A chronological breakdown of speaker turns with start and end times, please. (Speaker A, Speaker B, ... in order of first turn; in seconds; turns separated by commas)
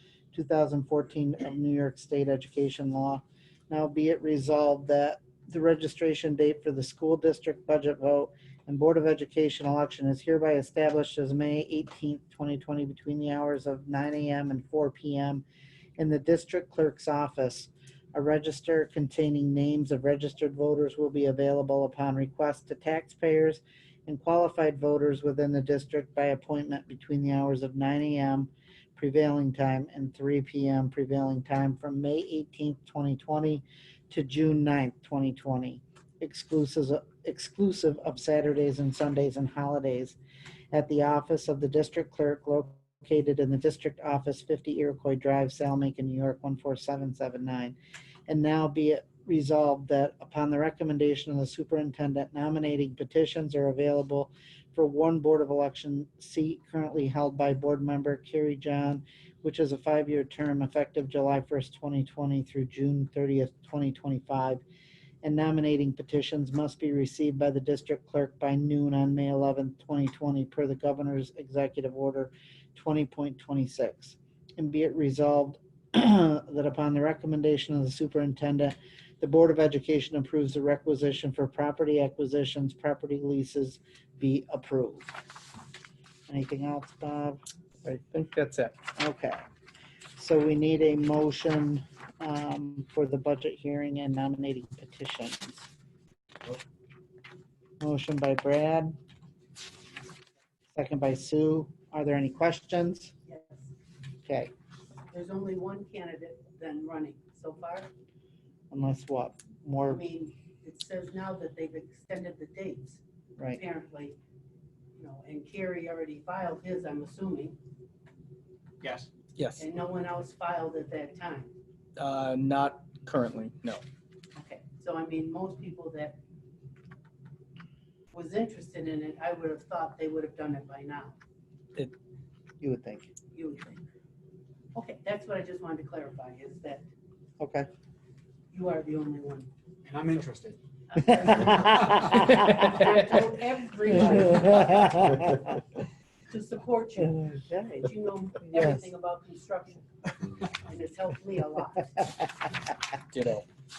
Speaker A: 0.3-15.4, Speaker A: 16.0-40.2, Speaker A: 40.7-47.8, Speaker A: 48.3-64.6, Speaker A: 65.2-85.1, Speaker A: 86.3-87.4, Speaker B: 87.8-88.8, Speaker A: 89.0-89.4, Speaker A: 90.2-95.7, Speaker A: 97.8-99.0, Speaker A: 100.7-103.1, Speaker C: 103.3-103.7, Speaker A: 104.2-104.5, Speaker C: 105.1-107.9, Speaker A: 108.7-110.1, Speaker C: 109.8-113.0, Speaker C: 113.5-114.2, Speaker C: 115.0-117.6, Speaker D: 118.8-119.1, Speaker B: 119.4-119.7, Speaker C: 119.6-121.5, Speaker B: 122.0-123.8, Speaker C: 124.4-126.2, Speaker C: 128.1-131.2, Speaker A: 132.6-133.1, Speaker C: 133.3-133.8, Speaker C: 134.7-136.9, Speaker A: 137.4-137.7, Speaker C: 138.5-139.5, Speaker D: 139.8-140.6, Speaker C: 140.9-145.3, Speaker A: 141.1-142.9, Speaker D: 141.4-142.6, Speaker A: 144.5-145.5, Speaker C: 146.3-152.0, Speaker A: 147.2-147.9, Speaker A: 148.5-148.9, Speaker B: 153.1-153.4